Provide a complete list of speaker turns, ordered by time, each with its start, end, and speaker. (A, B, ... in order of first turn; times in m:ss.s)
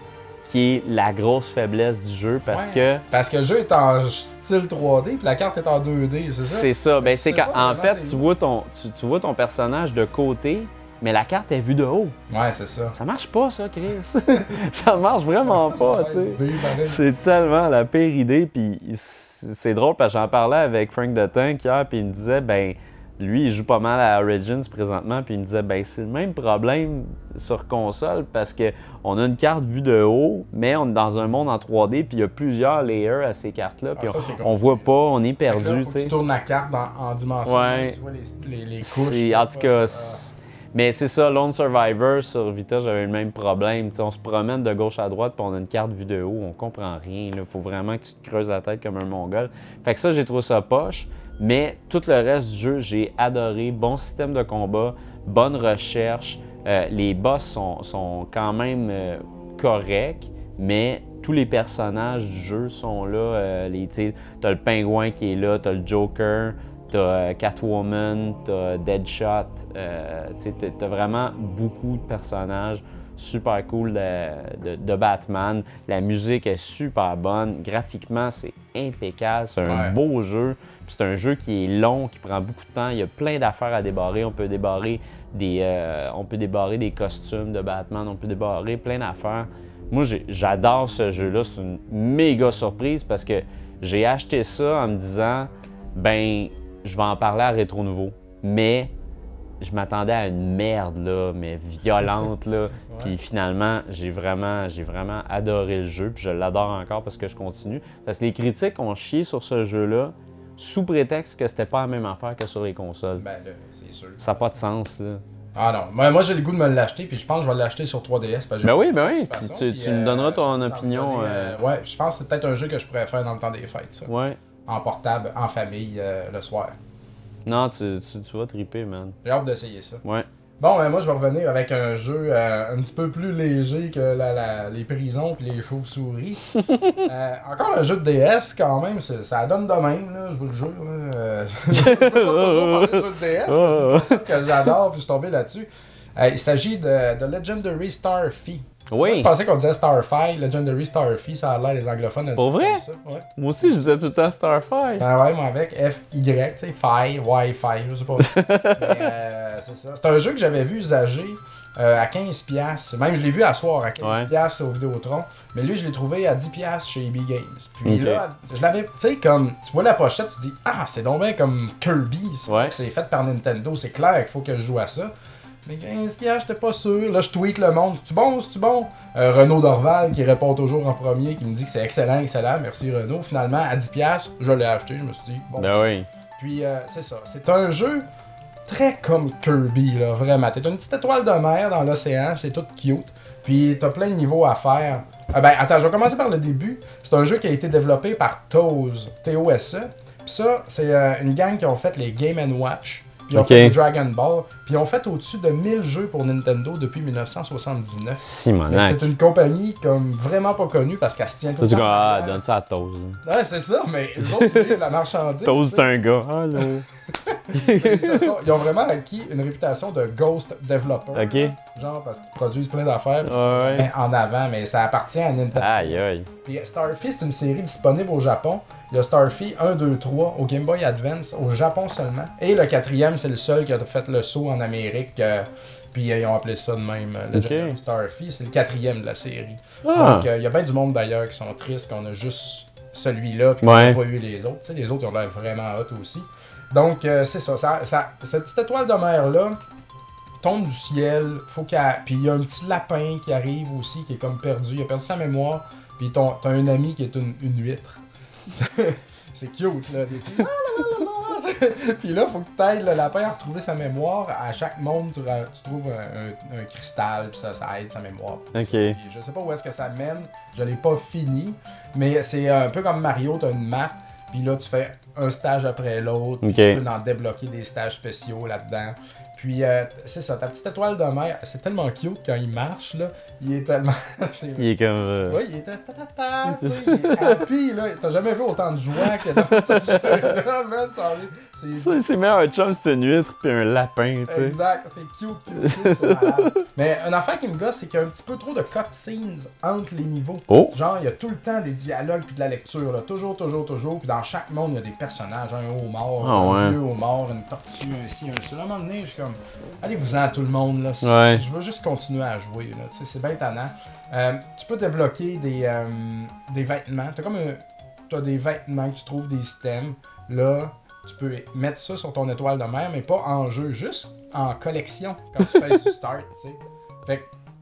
0:00.4-0:03.0 A
0:02.5-0:08.2 B
0:06.4-0:12.2 A
0:12.3-0:13.0 B
0:13.0-0:36.1 A
0:15.4-0:17.0 B
0:34.0-0:34.9 B
0:35.5-0:40.3 B
0:37.4-0:38.0 A
0:38.8-1:38.9 A
1:19.6-1:20.0 B
1:39.6-1:53.2 A
1:42.9-1:43.2 B
1:53.2-1:54.6 B
1:54.2-1:55.2 A
1:55.5-2:04.1 B
1:58.6-2:01.6 A
2:04.0-2:04.4 A
2:04.6-2:06.8 B
2:07.4-2:09.2 A
2:09.2-2:10.0 B
2:10.6-2:16.4 B
2:16.5-2:17.0 A
2:17.0-2:33.8 B
2:21.7-2:24.7 A
2:28.9-2:29.3 A
2:32.4-2:32.8 A
2:33.4-2:35.1 A
2:35.0-2:55.1 B
2:38.2-2:39.1 A
2:44.0-2:44.3 A
2:47.8-2:48.2 A
2:52.5-2:52.7 A
2:55.6-3:08.1 B
3:05.6-3:06.1 A
3:08.6-3:32.4 B
3:23.3-3:23.8 A
3:28.2-3:29.1 A
3:31.6-3:33.2 A
3:33.2-3:35.9 B
3:34.2-3:34.8 A
3:35.4-3:36.8 A
3:37.2-4:09.6 B
3:37.5-3:38.4 A
3:41.1-3:41.5 A
3:43.2-3:43.9 A
3:45.6-3:46.3 A
3:57.3-3:57.8 A
3:59.8-4:00.3 A
4:03.6-4:04.0 A
4:10.4-4:18.0 B
4:18.5-4:44.7 B
4:28.5-4:29.0 A
4:36.4-4:36.8 A
4:44.6-4:45.4 A
4:45.3-4:52.0 B
4:46.5-4:47.4 A
4:49.1-4:50.2 A
4:51.7-4:54.6 A
4:54.3-5:27.3 B
4:55.6-4:56.6 A
5:00.5-5:00.7 A
5:06.2-5:06.8 A
5:11.0-5:11.4 A
5:25.4-5:25.8 A